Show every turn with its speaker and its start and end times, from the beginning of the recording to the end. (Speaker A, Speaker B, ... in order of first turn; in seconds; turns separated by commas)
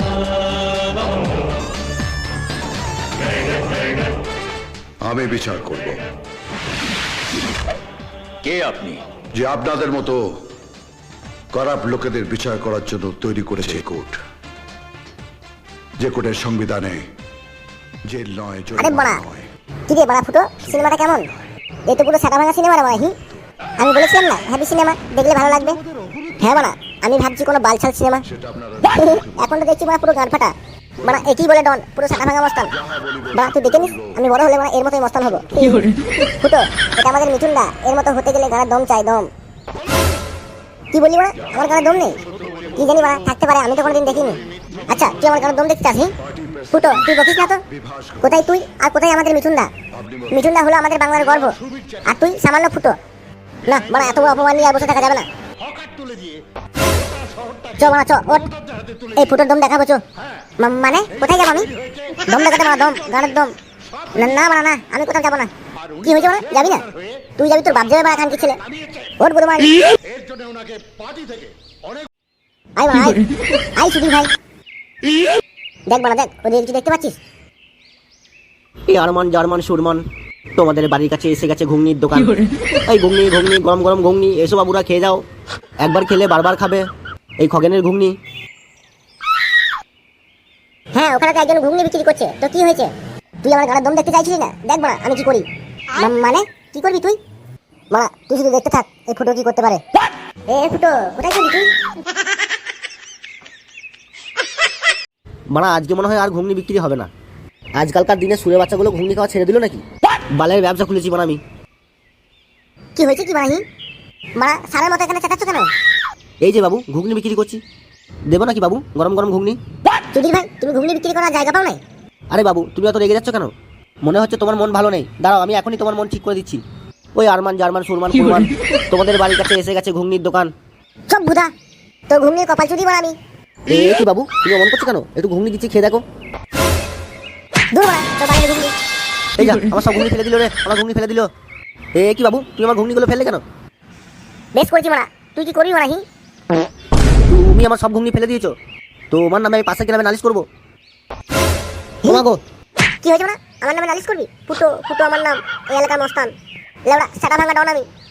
Speaker A: 5.0-6.0, Speaker A: 8.5-10.4, Speaker A: 11.5-14.2, Speaker A: 16.0-17.1, Speaker A: 18.0-19.4, Speaker B: 18.8-19.2, Speaker B: 19.9-21.3, Speaker B: 21.9-23.1, Speaker B: 23.8-25.8, Speaker B: 26.4-28.2, Speaker A: 28.3-29.2, Speaker B: 28.8-32.7, Speaker A: 32.9-33.3, Speaker B: 33.3-39.3, Speaker B: 40.9-42.2, Speaker B: 42.7-46.1, Speaker B: 46.7-47.6, Speaker A: 47.8-48.2, Speaker B: 48.2-49.7, Speaker B: 50.3-53.0, Speaker B: 53.6-55.3, Speaker A: 55.7-56.3, Speaker B: 57.7-58.5, Speaker B: 59.1-60.0, Speaker B: 60.6-61.7, Speaker B: 62.2-63.5, Speaker B: 64.1-66.8, Speaker B: 67.4-68.6, Speaker B: 69.2-69.7, Speaker A: 70.5-70.7, Speaker B: 72.8-73.2, Speaker B: 73.7-74.3, Speaker B: 75.9-77.2, Speaker C: 78.9-80.0, Speaker C: 80.5-85.2, Speaker C: 85.8-86.9, Speaker C: 87.4-88.2, Speaker B: 90.9-97.2, Speaker B: 97.9-99.8, Speaker B: 100.5-101.7, Speaker C: 105.5-107.1, Speaker C: 107.8-109.8, Speaker C: 110.3-111.4, Speaker B: 113.0-113.6, Speaker B: 114.3-115.7, Speaker C: 116.4-117.6, Speaker C: 118.3-119.6, Speaker B: 120.1-121.8, Speaker C: 122.3-123.5, Speaker C: 124.0-126.6, Speaker C: 127.1-130.5, Speaker B: 131.1-131.5, Speaker B: 132.1-133.2, Speaker C: 133.7-136.0, Speaker B: 137.7-138.7, Speaker C: 139.4-141.3, Speaker C: 141.9-143.4, Speaker B: 144.5-146.0, Speaker C: 147.3-148.5, Speaker C: 149.1-150.4, Speaker C: 152.0-152.4, Speaker B: 153.0-156.3, Speaker B: 156.8-157.8